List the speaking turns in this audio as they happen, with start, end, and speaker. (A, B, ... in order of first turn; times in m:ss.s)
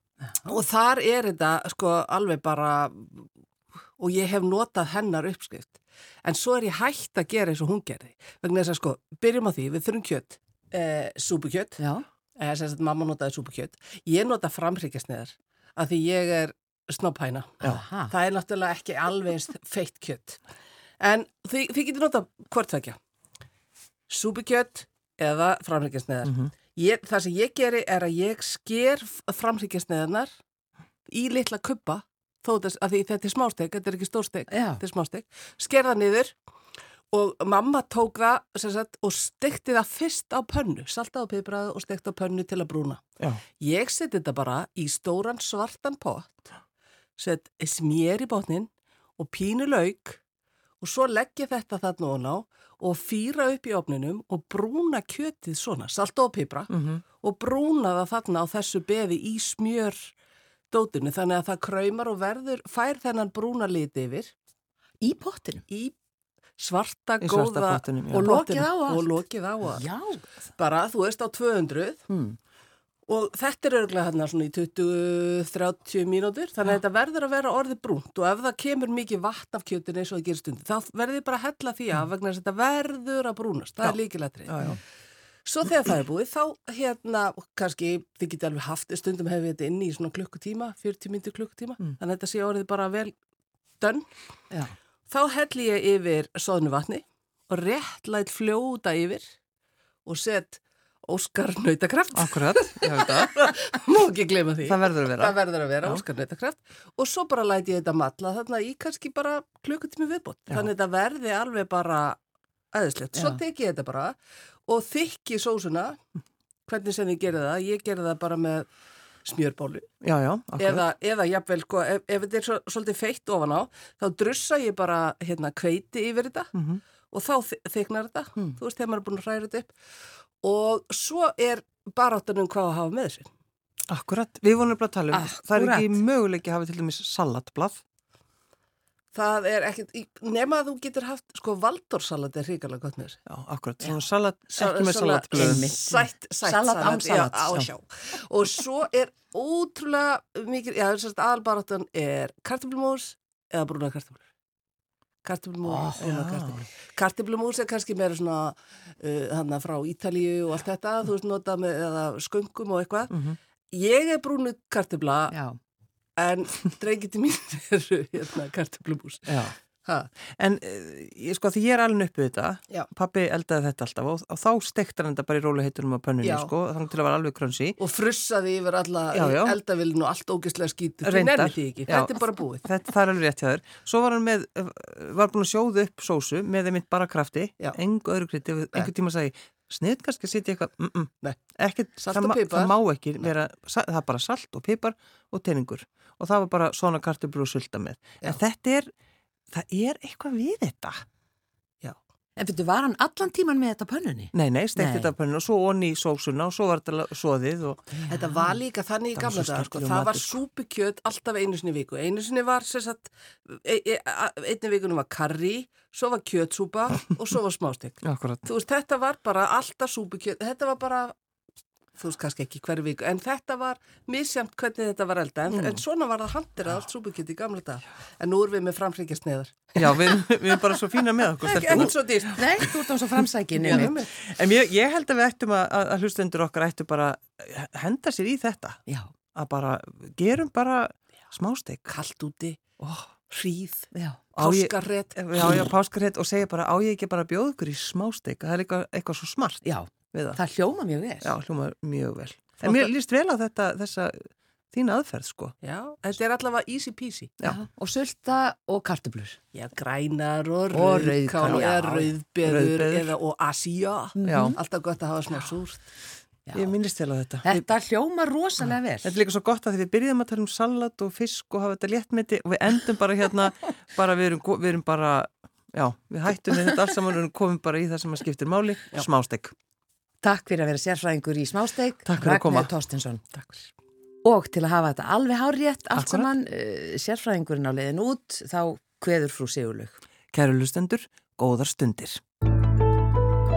0:00.4-0:03.3 A
0:04.0-0:11.8 A
0:11.8-0:12.0 B
0:12.4-0:20.4 A
0:17.6-0:18.1 B
0:21.0-0:23.0 A
0:24.1-0:30.3 A
0:26.2-0:26.5 C
0:31.1-0:36.3 A
0:34.5-0:34.8 B
0:37.1-0:43.0 A
0:43.6-0:46.5 A
0:47.2-0:50.2 A
0:50.8-1:00.1 A
0:56.7-0:57.0 C
1:00.7-1:04.3 A
1:05.0-1:05.6 B
1:06.6-1:09.8 A
1:07.2-1:08.3 C
1:08.2-1:10.2 B
1:10.6-1:12.0 A
1:12.1-1:12.4 B
1:13.1-1:24.8 A
1:23.8-1:24.8 C
1:25.4-1:33.1 A
1:33.8-1:34.0 A
1:35.1-1:39.2 A
1:40.0-1:52.2 A
1:42.1-1:43.5 C
1:44.6-1:46.0 C
1:52.7-1:54.2 A
1:54.7-1:56.0 A
1:56.7-1:58.7 A
1:59.2-1:59.9 A
2:00.0-2:00.8 C
2:00.6-2:06.5 A
2:06.5-2:06.8 C
2:07.1-2:09.7 A
2:10.4-2:13.3 A
2:13.9-2:17.8 C
2:15.1-2:16.0 B
2:19.1-2:23.2 A
2:23.3-2:25.7 C
2:24.5-2:34.2 A
2:25.3-2:27.7 B
2:35.2-2:43.1 A
2:35.6-2:36.1 B
2:36.0-2:36.6 C
2:43.1-2:43.4 C
2:43.7-2:45.3 A
2:45.3-2:45.6 B
2:46.2-2:50.1 A
2:49.3-2:49.5 C
2:50.3-2:57.8 C
2:56.2-2:56.5 A
2:57.8-3:02.6 A
2:59.1-2:59.6 C
3:01.0-3:18.9 C
3:12.0-3:13.3 A
3:19.5-3:21.0 C
3:22.4-3:25.1 B
3:24.3-3:27.9 C
3:27.9-3:28.5 B
3:28.1-3:41.1 A
3:29.2-3:30.4 C
3:38.0-3:38.4 C
3:42.0-3:50.2 A
3:49.8-3:52.7 C
3:51.4-3:52.7 A
3:52.3-3:54.0 B
3:53.6-3:54.1 A
3:53.6-3:58.8 C
3:59.3-4:01.9 C
4:01.9-4:02.6 A
4:02.8-4:03.1 C
4:03.3-4:05.6 A
4:03.9-4:04.2 B
4:04.4-4:10.4 C
4:09.6-4:11.3 B
4:11.2-4:15.5 C
4:12.6-4:12.9 A
4:15.6-4:17.3 A
4:17.4-4:19.4 B
4:19.5-4:25.9 A
4:20.7-4:22.1 B
4:21.4-4:21.7 C
4:22.4-4:23.1 C
4:24.2-4:24.6 B
4:24.3-4:24.6 C
4:26.5-4:26.7 B
4:26.5-4:27.6 C
4:27.4-4:29.1 B
4:29.0-4:39.5 C
4:40.2-4:43.2 B
4:42.0-4:42.7 C
4:43.3-4:43.6 C
4:44.2-4:50.0 B
4:45.9-4:46.3 C
4:50.3-4:52.2 C